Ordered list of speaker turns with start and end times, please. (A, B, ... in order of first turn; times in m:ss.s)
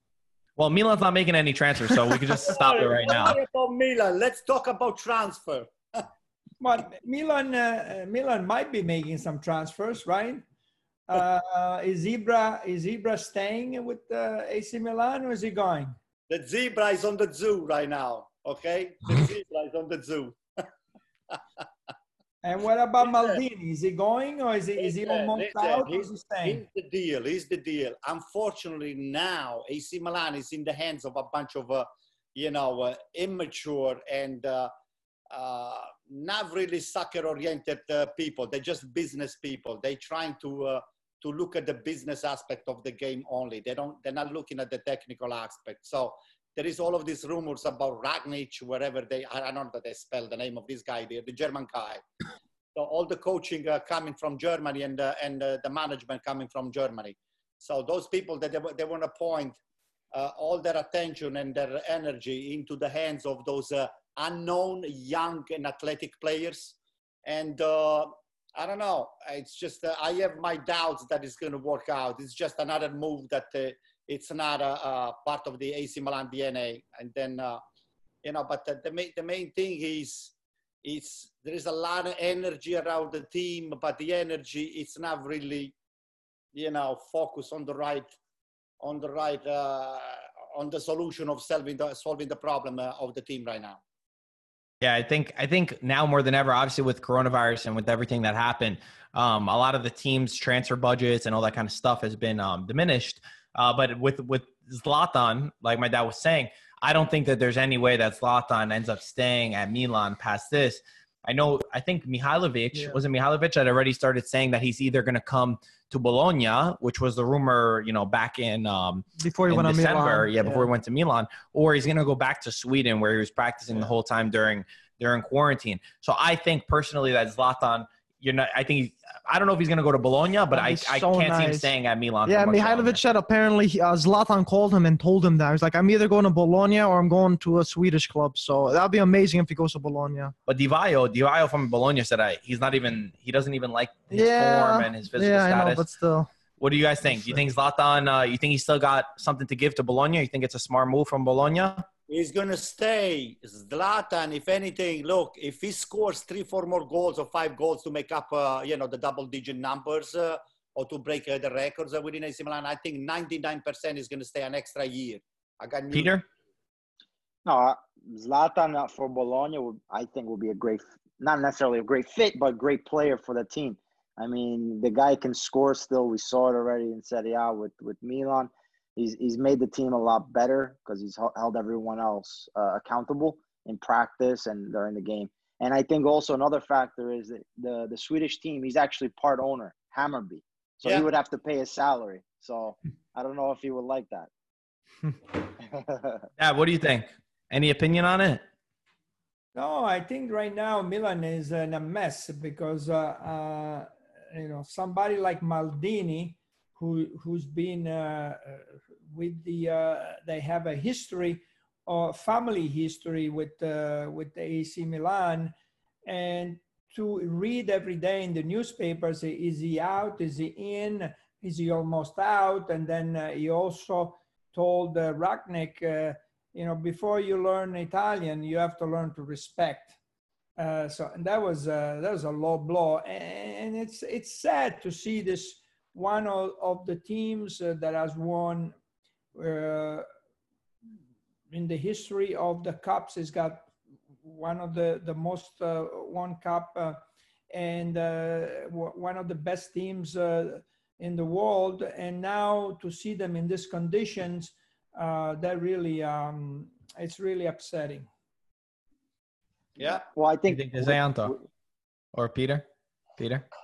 0:00.6-0:03.4 A
0:02.4-0:06.0 B
0:06.6-0:10.4 C
0:11.1-0:16.0 C
0:16.3-0:20.4 B
0:22.4-0:26.6 C
0:23.0-0:23.4 B
0:24.8-0:34.7 B
0:35.3-0:52.0 B
0:52.7-0:59.6 B
1:00.1-1:17.6 B
1:18.2-1:20.3 B
1:20.8-1:25.7 B
1:26.5-1:28.1 B
1:28.8-1:33.8 B
1:34.8-2:13.0 A
1:52.7-1:53.0 D
1:59.2-2:00.7 D
2:10.5-2:11.7 D
2:12.2-2:20.3 D
2:20.5-2:25.9 A
2:24.1-2:26.3 D
2:26.6-2:31.8 A
2:27.1-2:27.4 D
2:32.1-2:46.2 B
2:45.9-2:46.2 A
2:47.4-3:14.3 E
3:15.6-3:16.2 E
3:16.4-3:18.4 A
3:19.5-3:35.5 C
3:36.0-3:49.9 C
3:50.6-3:58.7 C
3:59.3-4:00.0 C
4:01.5-4:03.7 C
4:04.2-4:07.0 C
4:07.5-4:18.1 C
4:19.8-4:20.0 B
4:20.1-4:21.4 E
4:20.5-4:21.3 A
4:22.1-4:22.6 A
4:23.2-4:23.4 A